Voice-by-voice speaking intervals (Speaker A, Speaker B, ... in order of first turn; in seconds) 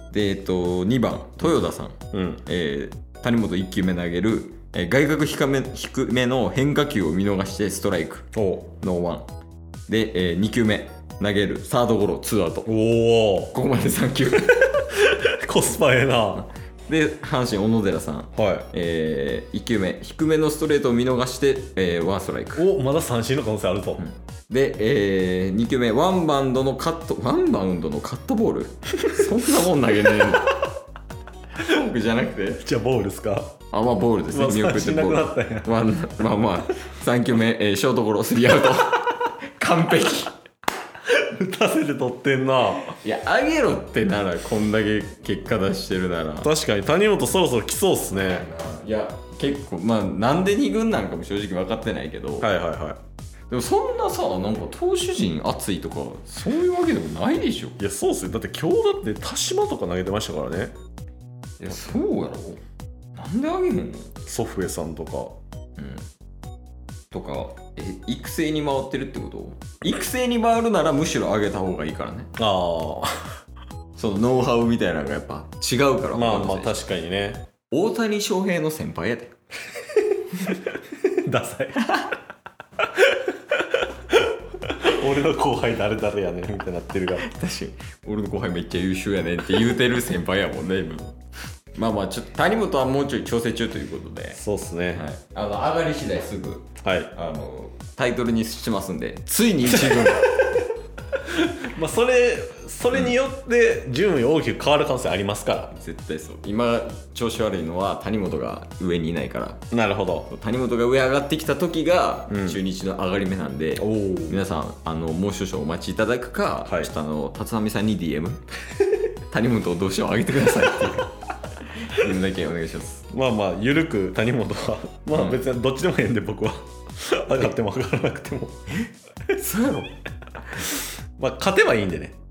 Speaker A: 0.1-8.2, 8.8-9.3, 9.9-12.7, 13.5-14.9, 16.9-22.7, 24.0-30.6, 31.5-32.7, 33.7-40.3, 42.8-46.5, 48.1-52.5, 53.5-57.8, 61.6-62.6, 63.1-64.1, 65.8-66.0, 67.1-72.3, 74.0-76.8, 77.7-79.3, 81.8-82.1, 87.2-91.1, 91.7-94.4, 94.9-100.3, 105.7-109.6, 110.3-118.4, 119.3-121.1, 121.7-123.1, 125.1-125.4, 129.3-129.9
Speaker B: 2.1-2.4, 8.3-8.7, 12.6-13.5, 15.0-16.5, 18.3-18.7, 22.5-24.1, 32.6-33.5, 34.3-35.7, 41.1-42.9, 46.4-48.5, 52.4-53.0, 57.8-60.7, 64.2-65.3, 72.4-73.3, 76.1-77.5, 80.4-81.8, 82.9-87.2, 94.3-95.0, 96.8-97.1, 99.7-100.6, 101.2-105.7, 109.7-110.3, 112.3-112.6, 113.8-114.4, 116.6-116.9, 123.1-128.6, 130.6-132.1